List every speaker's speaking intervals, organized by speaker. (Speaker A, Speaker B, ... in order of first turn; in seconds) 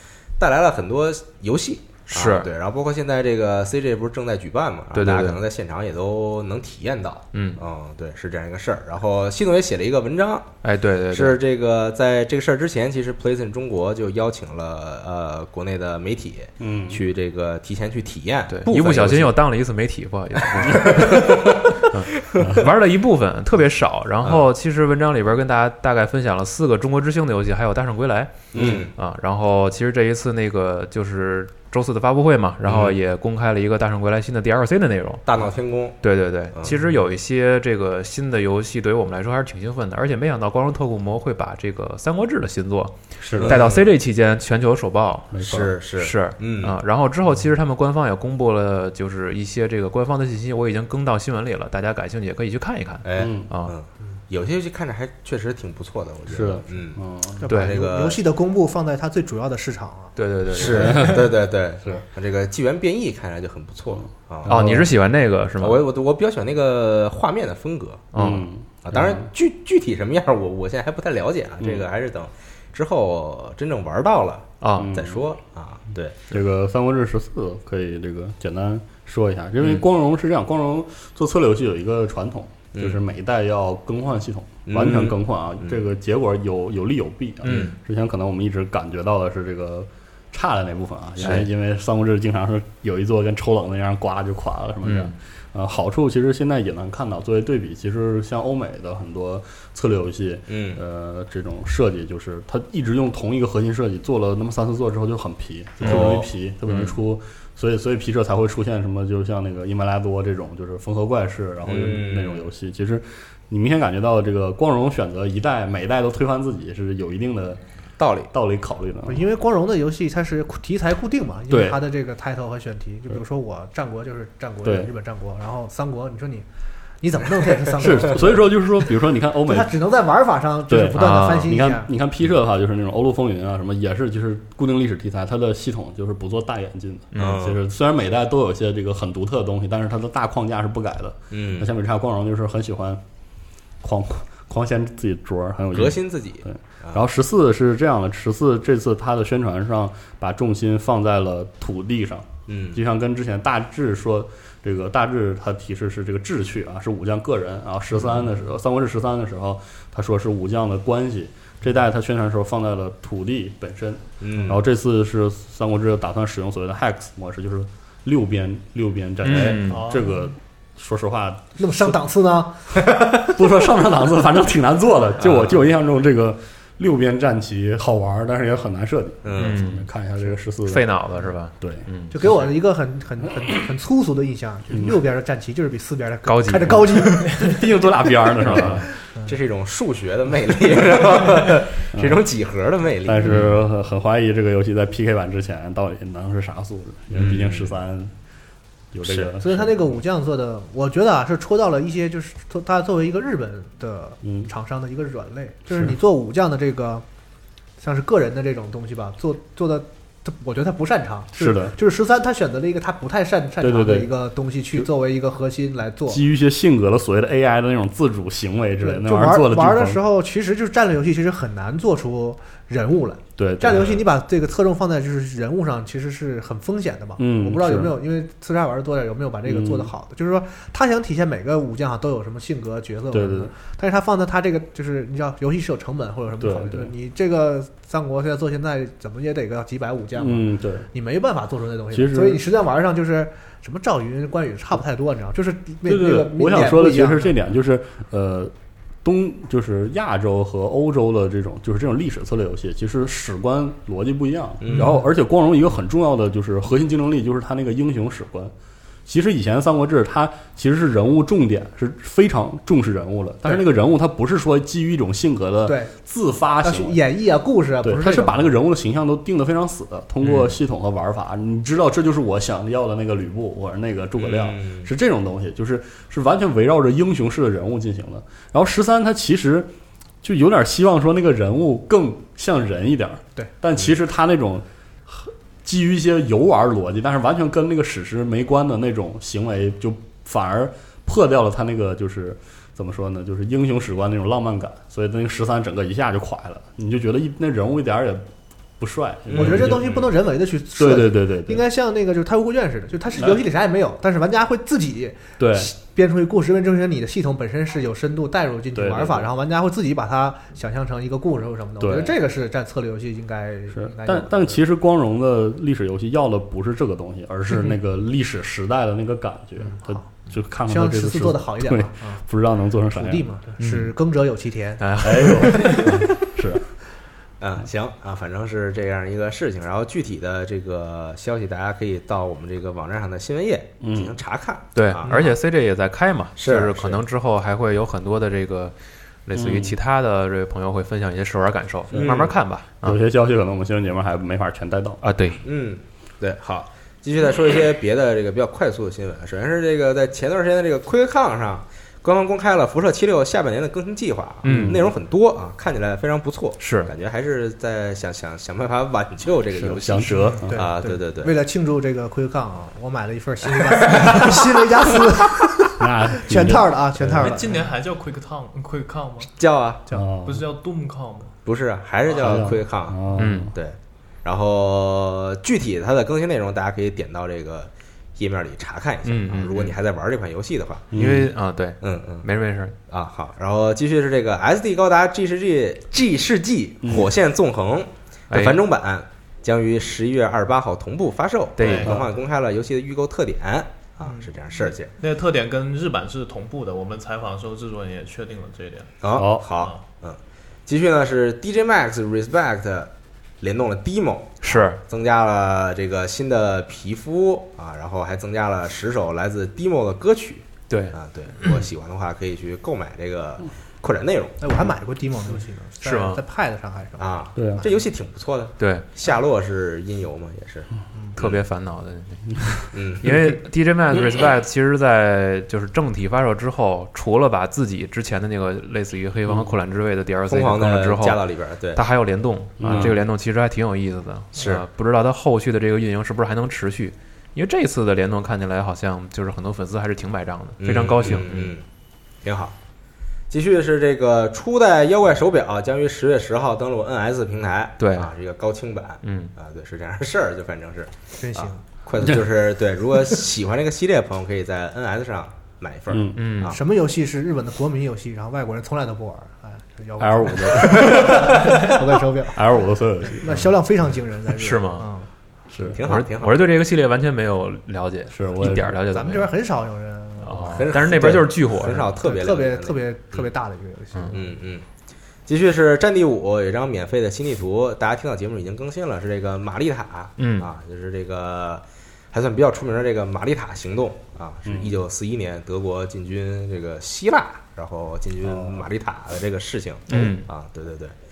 Speaker A: 0.4-10.5, 11.1-19.4, 20.6-22.5, 28.5-28.9, 32.6-33.0, 35.3-36.0, 43.3-43.9, 45.4-46.8, 53.0-58.2, 60.5-64.6, 65.6-68.1, 68.8-76.3, 82.7-83.0, 84.7-85.8, 87.4-87.7, 100.5-100.8, 105.8-106.3, 111.6-112.5, 118.0-118.3, 137.2-137.6, 141.3-141.7, 145.7-147.0, 152.5-152.8, 158.0-158.3, 164.2-164.6, 169.3-169.6, 175.2-175.7, 179.2-179.6, 189.2-193.5, 197.1-197.8, 199.1-199.3, 254.6-255.0, 274.2-274.9, 299.3-300.0, 327.4-335.3, 336.4-337.0, 341.9-342.3, 345.4-361.4, 363.6-365.1, 369.4-369.9, 371.4-373.0, 373.5-380.9, 381.8-382.3, 382.9-394.9, 399.0-414.4, 417.0-421.4, 422.7-423.3, 430.3-431.8, 432.6-433.0, 434.4-434.6, 440.6-441.6, 442.2-442.6, 443.3-456.6, 460.8-461.6, 465.6-466.5, 470.5-473.3, 474.1-474.6, 475.3-490.9
Speaker B: 2.1-2.5, 4.9-5.4, 7.3-7.6, 10.6-11.4, 18.5-35.2, 36.0-45.3, 46.0-53.7, 57.5-57.8, 60.2-61.2, 64.5-65.8, 68.1-68.5, 74.6-74.9, 91.2-91.5, 94.8-95.1, 105.9-106.9, 131.0-131.6, 137.1-137.4, 169.2-169.8, 179.4-179.9, 180.7-182.2, 186.3-187.3, 188.4-188.8, 270.2-270.6, 323.6-323.9, 324.8-326.0, 334.8-338.8, 339.3-343.0, 345.0-345.4, 354.4-354.8, 356.6-356.9, 373.2-373.5, 379.1-379.7, 380.9-382.8, 388.3-388.6, 391.6-391.9, 404.4-404.8, 410.7-411.6, 415.8-416.2, 418.6-418.9, 421.2-431.2, 431.8-441.5, 447.8-448.1, 449.0-449.3, 456.1-456.6, 464.4-464.9, 465.8-469.3, 470.2-471.9, 480.2-480.5, 489.9-490.3
Speaker C: 16.6-17.0, 22.4-22.7, 28.5-28.8, 43.2-43.6, 45.3-45.7, 53.2-53.5, 56.3-57.5, 60.6-61.2, 64.0-64.9, 68.2-69.2, 74.8-75.2, 76.3-117.6, 118.3-119.3, 121.5-121.8, 124.6-124.9, 127.8-129.8, 130.7-143.0, 143.8-172.0, 173.2-180.8, 181.6-181.8, 184.7-185.0, 186.8-188.9, 191.9-192.2, 193.0-198.1, 198.9-199.8, 204.2-204.5, 205.7-206.0, 211.3-211.8, 213.6-214.1, 216.1-220.0, 223.4-224.0, 227.2-228.0, 229.4-229.9, 233.1-233.5, 236.4-236.9, 240.2-240.9, 241.9-242.4, 245.8-258.5, 259.1-267.0, 267.8-279.7, 280.2-298.3, 298.8-300.1, 300.8-301.6, 303.2-303.4, 305.4-305.7, 308.7-309.3, 311.8-312.2, 313.7-323.2, 325.0-326.6, 333.8-334.2, 339.4-339.8, 341.9-342.3, 342.8-345.0, 354.4-354.9, 359.5-360.7, 365.8-367.4, 369.9-370.5, 372.2-373.5, 380.9-381.3, 386.8-387.1, 399.1-399.4, 417.4-417.6, 432.6-433.0, 455.9-456.2, 460.0-461.6, 462.3-463.5, 465.5-465.8, 468.1-468.8, 484.5-484.8, 488.2-488.7
Speaker D: 57.4-60.1, 119.1-126.5, 127.0-128.4, 129.5-131.9, 171.6-173.3, 182.1-187.5, 199.4-207.1, 207.8-216.2, 218.8-247.3, 254.7-255.0, 265.7-265.9, 266.6-268.5, 299.4-314.6, 319.6-320.1, 320.7-322.2, 322.9-326.1, 360.0-367.7, 414.4-417.7, 451.2-451.6, 456.5-462.6, 463.2-465.1, 468.9-470.9, 471.9-474.4
Speaker E: 169.7-170.2, 367.1-369.3, 370.2-371.3, 391.6-392.0, 395.0-398.9